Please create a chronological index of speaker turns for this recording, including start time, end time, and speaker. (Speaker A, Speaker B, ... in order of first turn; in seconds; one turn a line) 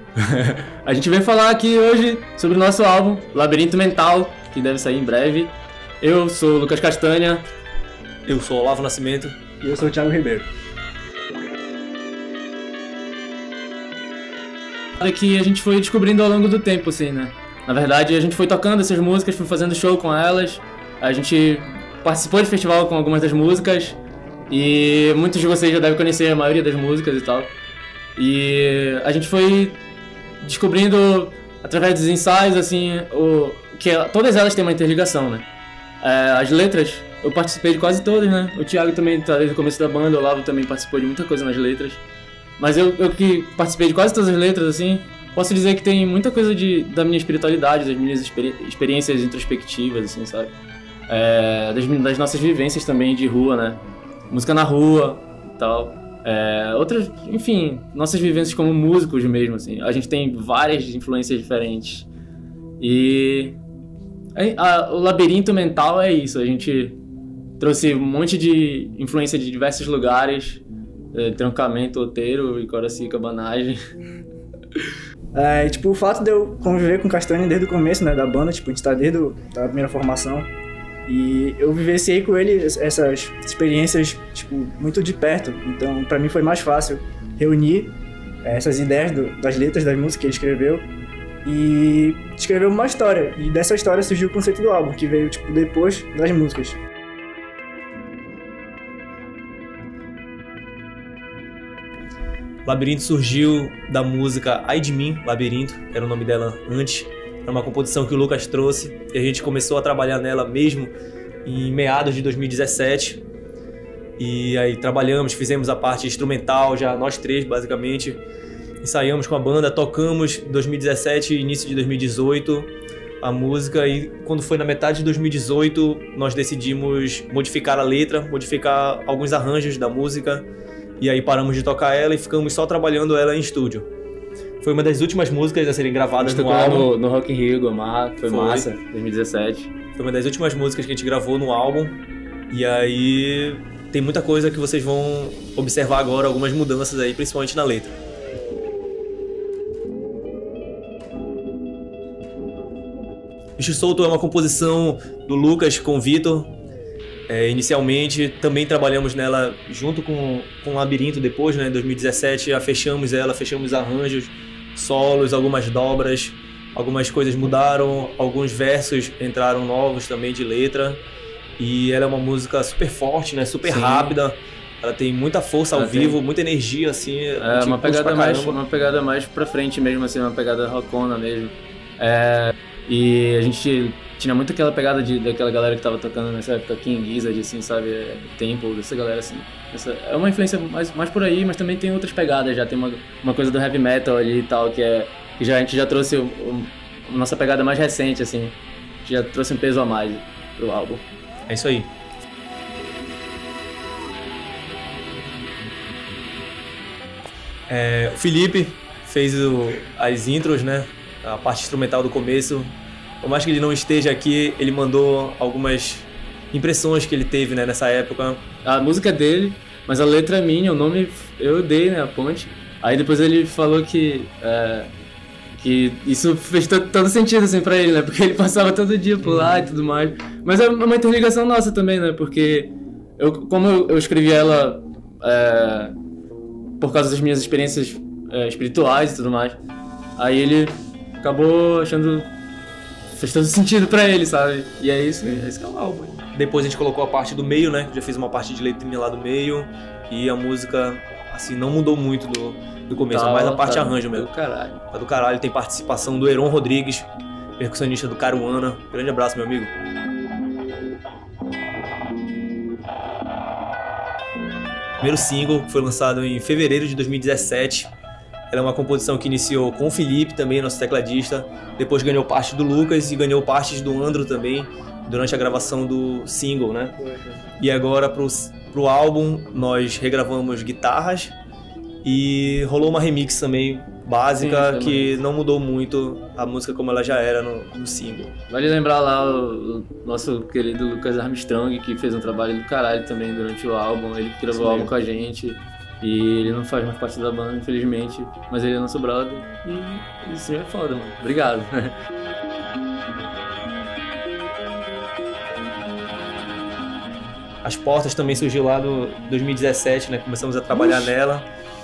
Speaker A: 0.2-7.5
Speaker B: 8.3-9.3
Speaker C: 9.6-10.5
Speaker A: 15.0-24.0
Speaker A: 24.5-27.5
Speaker A: 28.2-29.8
Speaker A: 30.4-35.5
Speaker A: 36.0-42.0
Speaker A: 42.6-50.5
Speaker A: 51.1-62.1
Speaker A: 62.8-63.6
Speaker A: 64.3-67.0
Speaker A: 67.6-73.8
Speaker C: 75.3-80.5
Speaker C: 81.1-90.9
Speaker C: 91.5-96.8
Speaker B: 102.7-110.9
Speaker B: 111.5-113.2
Speaker B: 114.2-118.2
Speaker B: 118.8-130.5
Speaker B: 131.0-133.9
Speaker B: 134.6-136.9
Speaker A: 136.2-139.7
Speaker B: 138.3-138.7
Speaker B: 140.0-142.0
Speaker B: 142.5-147.9
Speaker B: 153.6-156.5
Speaker B: 157.3-171.0
Speaker B: 171.6-178.6
Speaker A: 173.6-174.2
Speaker A: 175.7-176.2
Speaker A: 177.4-201.1
Speaker B: 201.5-201.9
Speaker B: 207.7-218.4
Speaker A: 218.6-224.9
Speaker A: 225.6-235.9
Speaker A: 236.8-239.6
Speaker A: 240.2-242.3
Speaker A: 243.1-246.2
Speaker B: 246.3-254.3
Speaker A: 253.1-254.8
Speaker B: 254.9-259.7
Speaker B: 265.0-267.9
Speaker B: 268.5-276.9
Speaker C: 277.0-277.5
Speaker B: 277.6-281.4
Speaker B: 282.0-288.3
Speaker A: 284.4-285.2
Speaker A: 288.5-301.9
Speaker B: 294.5-294.9
Speaker B: 307.6-311.5
Speaker A: 310.7-311.1